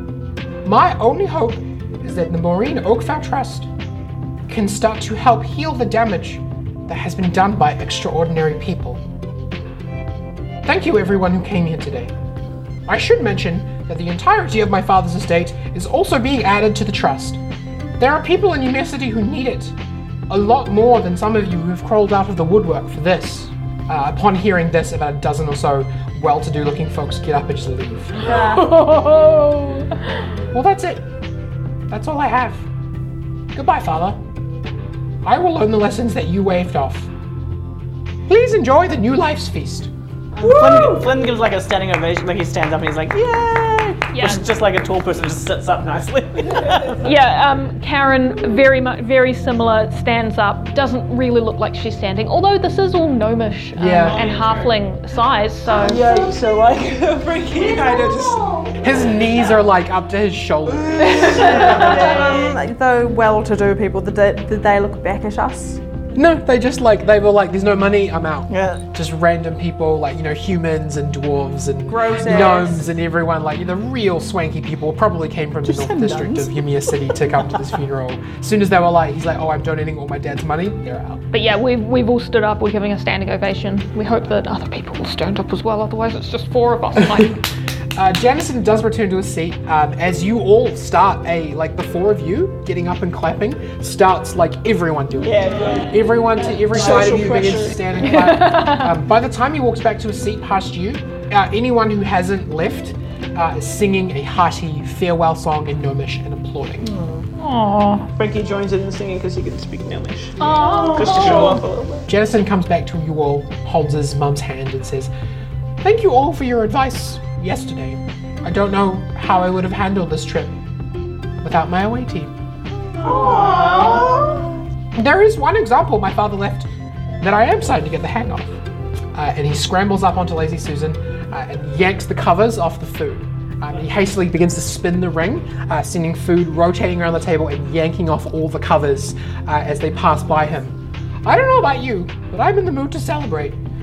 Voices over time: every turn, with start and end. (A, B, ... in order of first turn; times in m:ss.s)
0:00.6-0:03.7 A
0:04.5-0:09.0 A
0:10.6-0:12.1 A
0:12.9-0:17.4 A
0:18.0-0:19.8 A
0:20.3-0:28.4 A
0:28.2-0:30.2 B
0:30.5-0:31.1 A
0:31.9-0:32.7 A
0:33.5-0:34.2 A
0:35.2-0:37.1 A
0:38.3-0:39.9 A
0:40.4-0:47.1 C
0:40.7-0:40.9 A
0:44.1-0:44.4 B
0:46.6-0:47.0 D
0:47.0-0:56.0 B
0:53.7-0:54.2 A
0:54.1-0:54.7 D
0:54.1-0:54.6 C
0:55.7-0:58.8 D
0:56.0-0:56.4 C
0:58.8-1:01.6 A
1:00.9-1:02.3 D
1:01.2-1:05.8 E
1:06.1-1:21.2 A
1:08.5-1:08.8 C
1:11.9-1:12.9 E
1:15.6-1:16.6 C
1:21.3-1:27.4 B
1:27.0-1:27.3 A
1:28.0-1:46.9 A
1:35.2-1:37.9 D
1:38.0-1:39.0 B
1:46.8-1:47.2 C
1:47.4-1:48.1 B
1:48.1-1:52.1 D
1:50.4-1:51.6 B
1:50.5-1:51.7 C
1:52.1-1:55.1 A
1:55.8-2:00.6 A
2:01.4-2:02.3 A
2:03.0-2:04.4 C
2:03.0-2:04.3 D
2:04.9-2:08.6 A
2:09.1-2:23.6 A